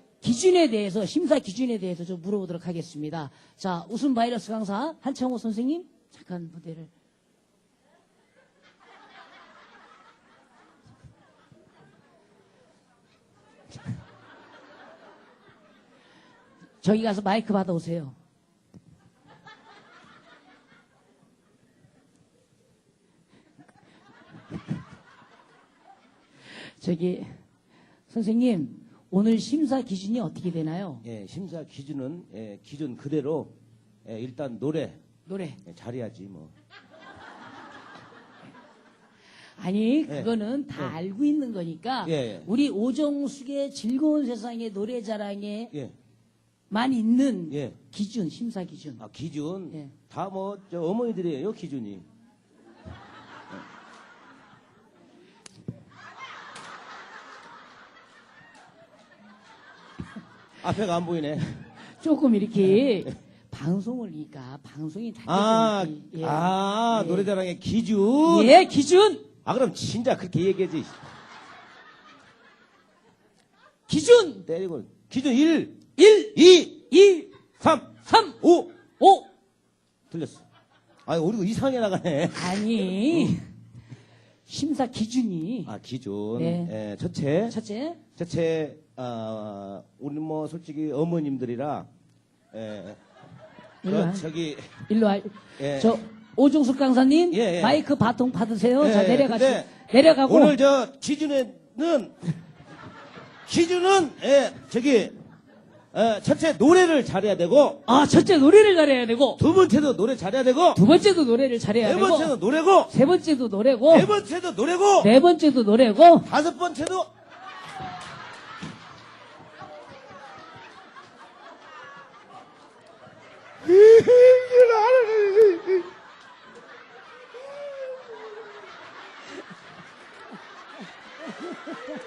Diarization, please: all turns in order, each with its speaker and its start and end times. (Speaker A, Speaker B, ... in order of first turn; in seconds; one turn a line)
Speaker A: 0.2-6.9
Speaker A: 16.8-18.1
Speaker A: 26.8-27.3
Speaker A: 28.1-31.0
Speaker B: 31.0-35.0
Speaker A: 35.2-35.6
Speaker B: 35.6-36.5
Speaker A: 39.6-45.7
Speaker B: 40.1-40.9
Speaker B: 42.0-42.5
Speaker A: 46.7-49.0
Speaker B: 47.5-47.7
Speaker B: 49.0-52.1
Speaker B: 60.6-61.5
Speaker A: 62.0-67.3
Speaker B: 62.8-63.1
Speaker B: 65.3-68.5
Speaker A: 68.2-69.3
Speaker B: 69.4-71.0
Speaker A: 73.9-74.4
Speaker B: 74.4-76.8
Speaker A: 76.0-76.3
Speaker A: 76.9-77.3
Speaker B: 77.6-78.7
Speaker A: 78.0-78.3
Speaker A: 79.0-79.3
Speaker B: 80.1-80.4
Speaker B: 81.0-83.3
Speaker A: 82.3-83.5
Speaker A: 84.5-85.7
Speaker B: 85.7-87.5
Speaker A: 86.3-86.7
Speaker A: 87.5-88.0
Speaker B: 88.2-91.9
Speaker B: 92.5-93.0
Speaker A: 93.8-94.2
Speaker B: 93.9-94.7
Speaker A: 94.9-100.5
Speaker B: 95.6-95.9
Speaker B: 97.3-97.8
Speaker B: 98.8-99.7
Speaker B: 100.2-102.2
Speaker B: 103.5-105.2
Speaker B: 105.9-107.8
Speaker A: 107.9-109.4
Speaker B: 109.4-110.8
Speaker A: 110.7-112.3
Speaker B: 111.8-112.9
Speaker A: 112.9-114.1
Speaker B: 113.9-115.1
Speaker A: 115.0-116.3
Speaker B: 116.3-117.1
Speaker B: 123.9-125.4